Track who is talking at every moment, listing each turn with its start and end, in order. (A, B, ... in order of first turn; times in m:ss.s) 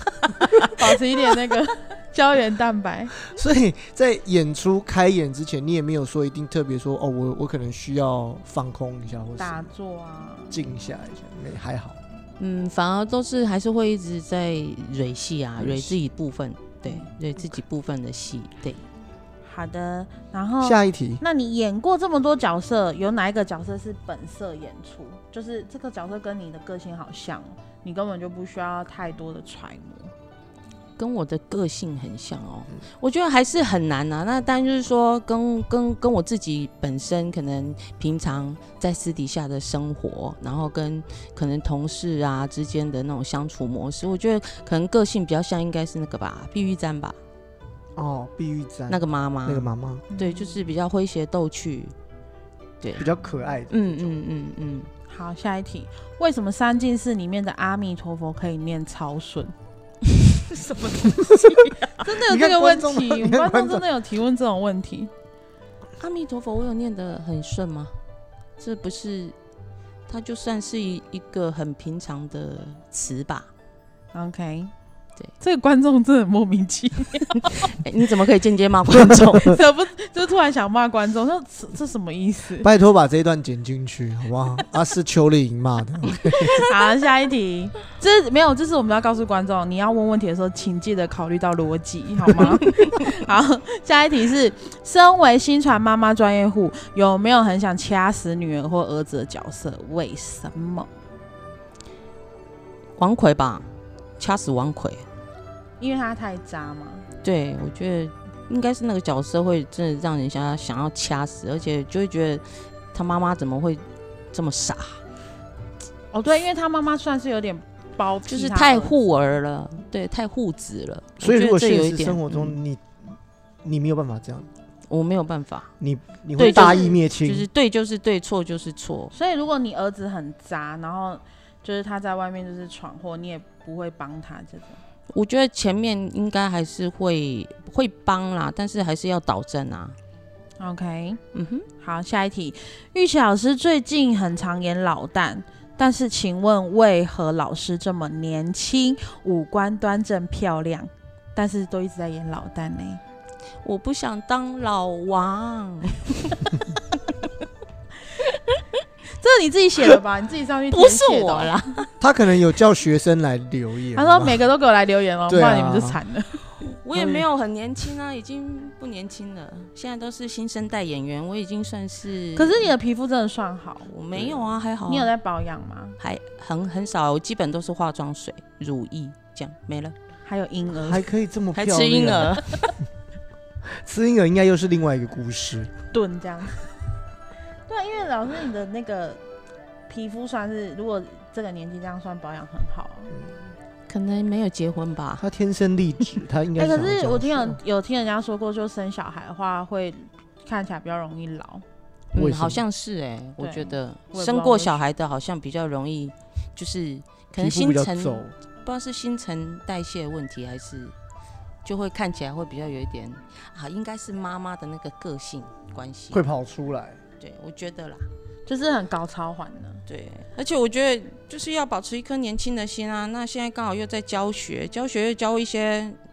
0:00.4-0:03.2 A
0:03.2-0:09.7 B
0:09.4-0:10.6 A
0:10.5-0:12.0 B
0:12.4-0:18.8 C
0:15.6-0:16.0 B
0:16.8-0:17.1 A
0:19.4-0:30.1 A
0:20.6-0:21.2 B
0:31.0-0:47.2 C
0:48.0-0:50.0 B
0:48.9-0:51.9 C
0:50.1-0:50.6 A
0:52.8-0:53.0 C
0:52.9-0:53.8 B
0:53.7-0:54.9 C
0:55.1-0:59.5 A
1:01.0-1:03.8 B
1:02.0-1:05.1 A
1:06.0-1:07.9 C
1:08.6-1:09.3 C
1:10.1-1:13.5 C
1:14.1-1:14.7 A
1:15.4-1:17.7 A
1:17.6-1:19.6 C
1:19.4-1:22.7 A
1:22.6-1:26.6 B
1:26.4-1:26.6 C
1:26.6-1:40.9 A
1:43.0-1:43.7 C
1:44.2-1:45.0 C
1:45.8-1:47.1 A
1:47.2-1:55.0 C
1:56.1-1:58.9 A
1:58.3-2:02.6 C
2:01.2-2:04.5 B
2:04.9-2:05.7 C
2:05.8-2:07.5 B
2:06.4-2:09.1 C
2:06.4-2:07.0 A
2:09.1-2:14.8 A
2:15.1-2:20.0 C
2:20.6-2:21.2 A
2:21.3-2:21.7 C
2:21.8-2:33.0 A
2:33.6-2:36.6 C
2:38.3-2:38.6 C
2:39.1-2:41.5 A
2:40.7-2:41.9 C
2:42.0-2:44.4 B
2:44.0-2:46.4 A
2:45.3-2:46.0 B
2:46.7-2:52.7 C
2:46.9-2:47.2 B
2:52.4-2:53.9 A
2:53.8-2:55.1 C
2:54.1-2:54.4 B
2:54.9-2:56.0 A
2:56.0-2:59.9 C
3:00.2-3:01.0 A
3:00.8-3:02.4 B
3:01.5-3:02.5 C
3:03.8-3:05.7 B
3:05.9-3:06.7 A
3:07.7-3:09.2 A
3:09.9-3:13.1 A
3:13.1-3:13.4 B
3:13.9-3:15.2 C
3:15.2-3:17.6 B
3:16.6-3:21.6 A
3:22.1-3:30.9 C
3:22.1-3:22.6 B
3:23.4-3:24.8 A
3:27.3-3:28.3 B
3:31.6-3:36.2 C
3:36.1-3:37.0 B
3:37.2-3:38.0 C
3:38.4-3:39.8 A
3:39.9-3:46.0 C